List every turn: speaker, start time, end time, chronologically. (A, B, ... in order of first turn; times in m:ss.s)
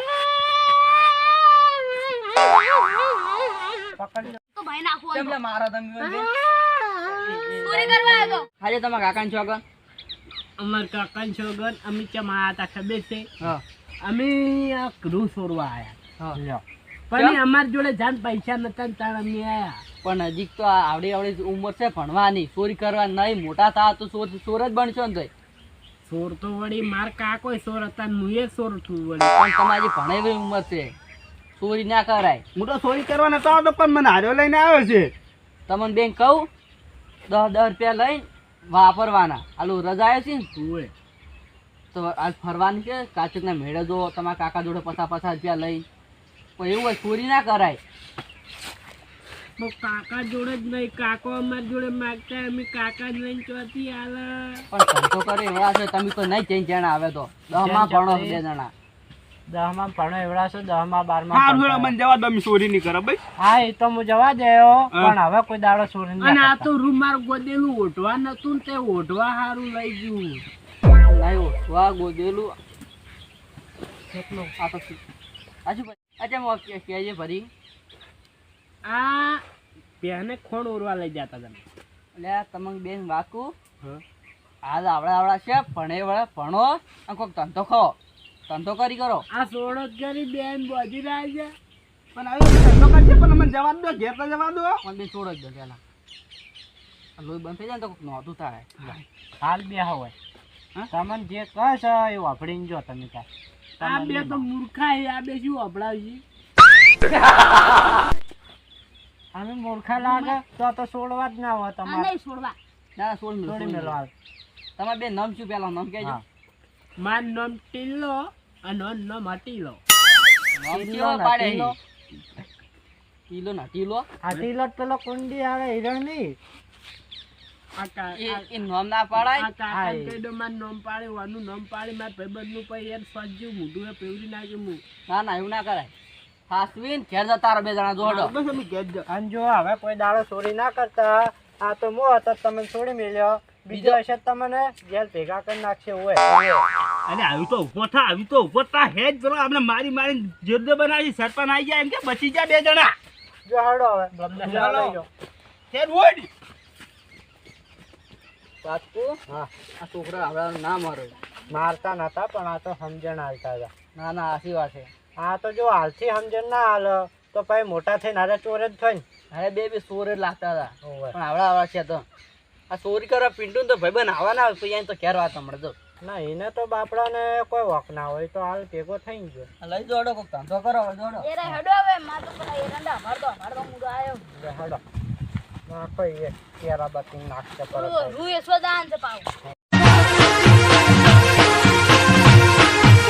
0:02.7-0:03.1 A
0:04.0-0:04.4 B
0:04.5-0:05.3 A
0:05.1-0:06.3 C
0:07.0-0:09.6 C
0:07.6-0:08.4 A
0:10.6-0:13.3 D
0:14.0-0:16.0 D
0:16.3-0:16.6 B
0:17.1-0:19.8 D
0:20.0-0:25.3 C
0:26.0-0:29.3 D
0:29.3-0:30.9 C
0:31.6-0:32.4 C
0:32.5-0:35.1 E
0:35.7-0:36.5 C
0:37.3-0:40.5 C
0:40.5-0:40.9 D
0:41.9-0:45.8 C
0:46.6-0:47.8 C
0:49.6-0:54.6 D
0:54.7-0:58.7 C
0:57.5-0:58.4 B
0:59.5-1:01.9 B
1:01.3-1:03.2 E
1:03.4-1:06.7 B
1:06.2-1:10.4 D
1:11.0-1:12.6 C
1:14.2-1:14.4 D
1:14.6-1:15.0 C
1:15.6-1:17.5 C
1:18.9-1:19.4 D
1:20.0-1:21.6 D
1:22.1-1:23.5 C
1:24.6-1:28.0 C
1:28.5-1:29.2 C
1:29.3-1:31.5 D
1:32.1-1:34.8 E
1:34.8-1:35.8 C
1:37.2-1:39.0 C
1:39.4-1:40.1 B
1:40.9-1:43.2 B
1:43.8-1:44.5 B
1:43.8-1:46.2 D
1:49.3-1:52.1 B
1:50.0-1:50.4 A
1:51.8-1:52.6 A
1:53.0-1:54.0 C
1:53.4-1:54.1 B
1:54.8-1:56.2 C
1:57.0-1:59.8 D
2:00.6-2:01.8 C
2:00.7-2:01.8 B
2:03.3-2:04.1 C
2:04.2-2:06.4 B
2:07.8-2:08.4 D
2:08.1-2:09.5 C
2:09.2-2:14.8 D
2:09.7-2:10.2 B
2:15.1-2:15.9 C
2:16.5-2:18.3 C
2:18.0-2:19.0 E
2:19.1-2:26.2 B
2:23.7-2:24.0 C
2:26.2-2:26.6 C
2:27.0-2:32.9 E
2:33.4-2:35.1 B
2:34.4-2:35.0 E
2:34.5-2:34.8 C
2:35.7-2:36.3 E
2:38.6-2:39.2 C
2:39.8-2:41.1 C
2:41.5-2:43.7 B
2:43.9-2:44.9 C
2:45.2-2:49.0 B
2:49.3-2:52.0 C
2:50.8-2:51.2 B
2:52.7-2:55.8 C
2:56.0-2:59.5 B
2:59.6-3:01.3 C
3:01.2-3:04.3 A
3:04.3-3:04.8 B
3:05.7-3:08.2 B
3:07.7-3:09.3 A